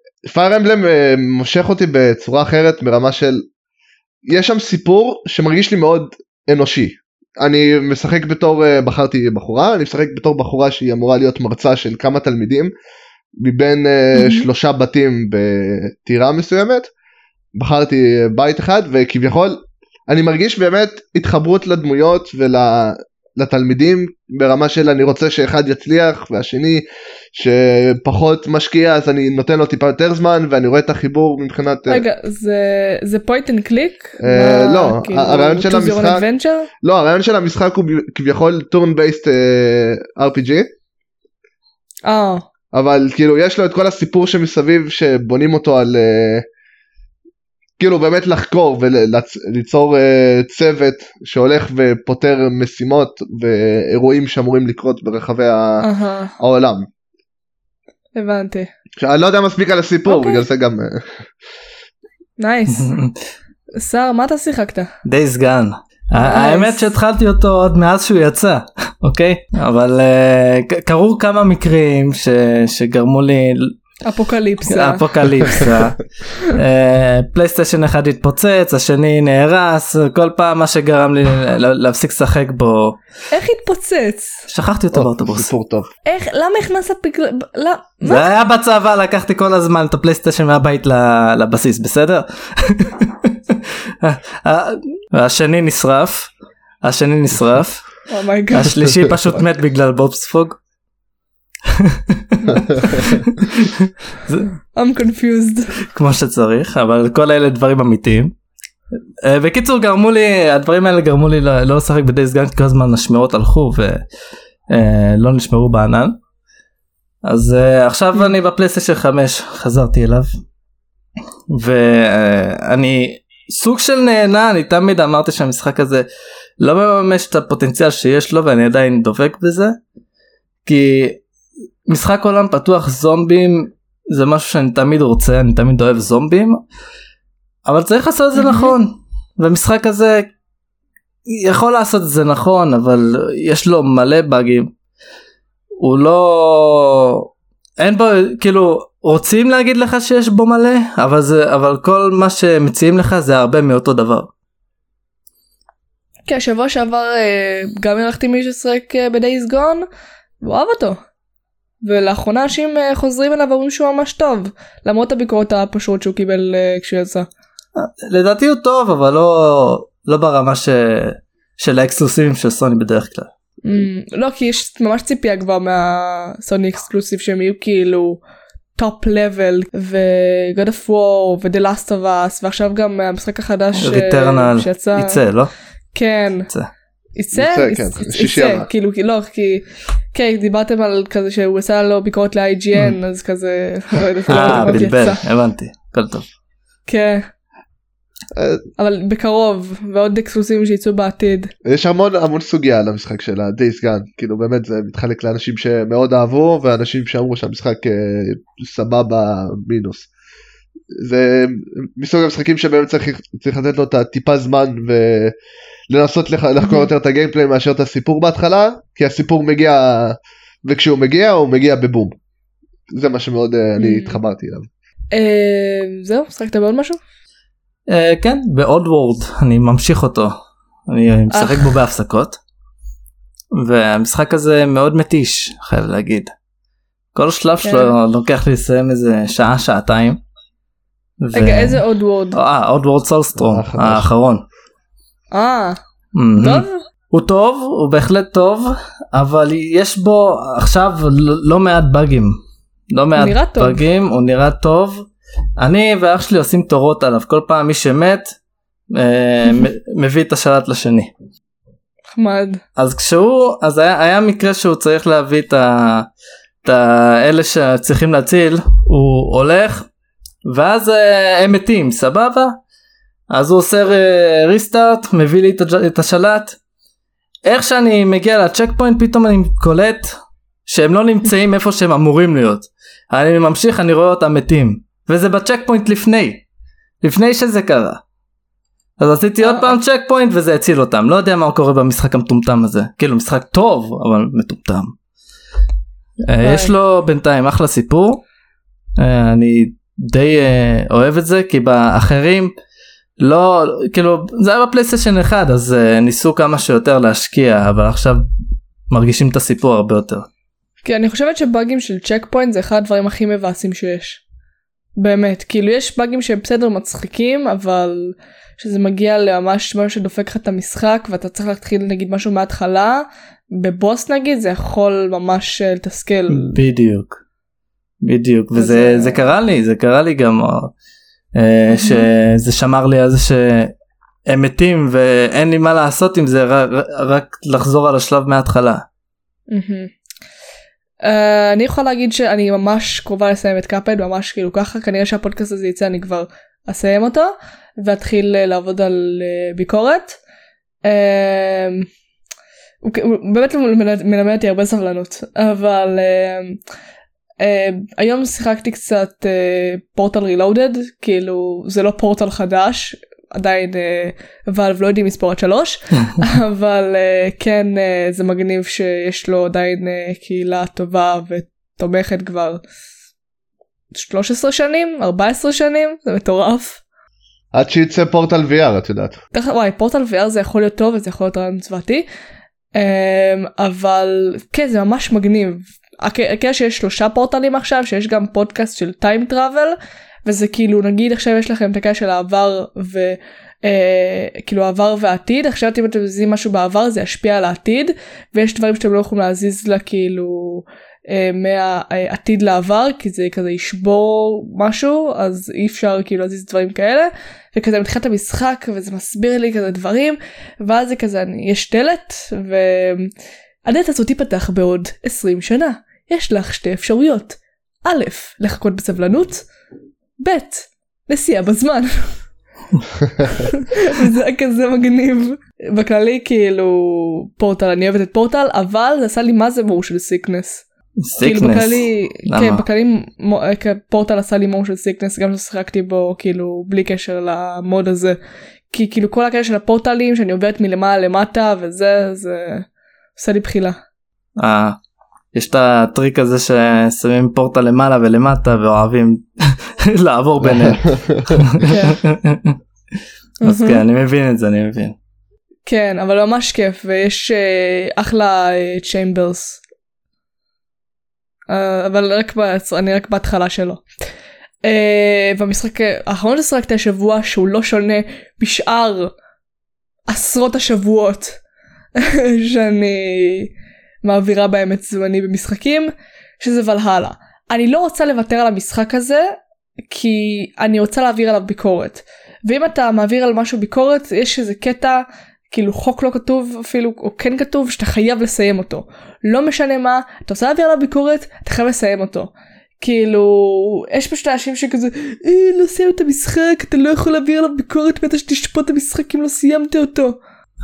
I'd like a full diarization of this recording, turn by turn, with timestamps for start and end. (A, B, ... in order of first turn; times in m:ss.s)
0:00.2-0:03.5 A
0:04.3-0:12.7 A
0:13.4-0:16.9 A
0:14.2-0:14.5 B
0:17.6-0:32.0 A
0:31.9-0:36.7 B
0:34.2-0:36.2 A
0:36.8-0:40.7 A
0:42.1-0:42.5 B
0:42.7-0:46.4 A
0:47.8-0:55.9 A
0:55.8-0:56.4 B
0:56.4-0:56.9 A
0:58.2-0:58.7 B
0:59.0-1:01.1 A
1:00.1-1:00.4 B
1:02.4-1:02.9 B
1:02.8-1:03.2 C
1:03.8-1:04.9 B
1:05.0-1:13.7 C
1:06.2-1:06.8 B
1:14.0-1:15.6 B
1:14.7-1:23.0 C
1:23.3-1:24.4 B
1:24.5-1:25.5 C
1:24.9-1:25.9 A
1:26.1-1:28.3 B
1:28.1-1:36.3 C
1:36.8-1:38.0 C
1:38.1-1:39.0 B
1:38.5-1:40.6 C
1:41.7-1:44.5 C
1:42.5-1:43.2 B
1:42.5-1:43.0 A
1:44.8-1:45.7 B
1:45.9-1:48.3 C
1:49.2-1:54.0 C
1:54.7-1:56.2 C
1:57.3-2:00.3 C
2:01.5-2:06.0 C
2:06.6-2:09.8 C
2:10.7-2:11.2 C
2:11.9-2:16.6 C
2:17.7-2:20.3 C
2:18.4-2:18.7 B
2:21.3-2:24.7 C
2:25.8-2:27.3 C
2:27.8-2:34.3 C
2:36.3-2:39.8 B
2:40.4-2:41.0 B
2:41.8-2:47.3 B
2:47.8-2:53.3 C
2:53.6-2:58.2 B
2:58.8-3:05.2 B
3:03.8-3:05.5 C
3:05.9-3:06.5 B
3:07.2-3:15.2 B
3:07.3-3:08.7 A
3:14.3-3:16.3 C
3:14.4-3:14.7 A
3:16.9-3:17.3 B
3:18.3-3:18.6 A
3:18.8-3:21.5 B
3:21.6-3:30.1 A
3:30.9-3:35.3 A
3:35.9-3:42.2 A
3:36.6-3:36.9 B
3:42.9-3:44.7 A
3:43.8-3:44.2 B
3:45.1-3:47.0 B
3:47.9-3:50.4 C
3:50.9-3:52.4 C
3:51.3-3:51.7 B
3:53.5-3:56.3 C
3:57.2-4:00.2 C
3:57.6-3:57.9 B
4:01.2-4:01.8 C
4:01.3-4:02.4 B
4:02.3-4:04.4 C
4:03.4-4:04.1 A
4:05.3-4:05.8 B
4:06.2-4:12.3 C
4:06.4-4:06.8 B
4:12.9-4:15.1 C
4:13.2-4:13.8 B
4:15.6-4:18.4 C
4:18.9-4:21.1 C
4:22.1-4:22.6 B
4:22.8-4:26.1 C
4:26.6-4:29.9 C
4:30.4-4:32.6 C
4:33.3-4:36.6 C
4:37.4-4:46.4 C
4:47.0-4:48.0 C
4:49.0-4:54.9 C
4:49.4-4:49.8 B
4:56.3-4:58.2 C
4:56.4-4:56.7 B
4:59.0-5:02.5 C
5:03.2-5:08.2 C
5:08.9-5:10.3 C
5:10.8-5:14.2 B
5:15.0-5:26.6 B
5:26.3-5:27.2 C
5:28.0-5:30.7 C
5:28.6-5:29.2 B
5:31.4-5:33.7 C
5:31.7-5:32.1 B
5:34.3-5:38.8 C
5:39.5-5:39.9 B
5:41.0-5:50.2 B
5:50.8-5:51.9 B
5:52.8-5:56.6 B
5:57.4-6:12.6 B
6:13.9-6:16.8 B
6:17.5-6:19.2 A
6:19.3-6:22.1 B
6:22.8-6:53.1 B
6:53.6-6:59.5 B
7:00.2-7:02.1 B
7:03.2-7:10.6 B
7:11.0-7:12.6 C
7:11.2-7:18.2 B
7:18.7-7:23.8 B
7:24.4-7:24.8 C
7:25.3-7:32.6 C
7:30.4-7:31.5 A
7:31.6-7:32.0 B
7:33.4-7:33.8 B
7:33.4-7:35.0 C
7:35.7-7:39.6 B
7:41.5-7:43.8 B
7:44.6-7:49.1 B
7:50.1-7:51.4 B
7:52.0-7:53.5 B
7:54.0-7:59.3 B
7:59.9-8:20.2 B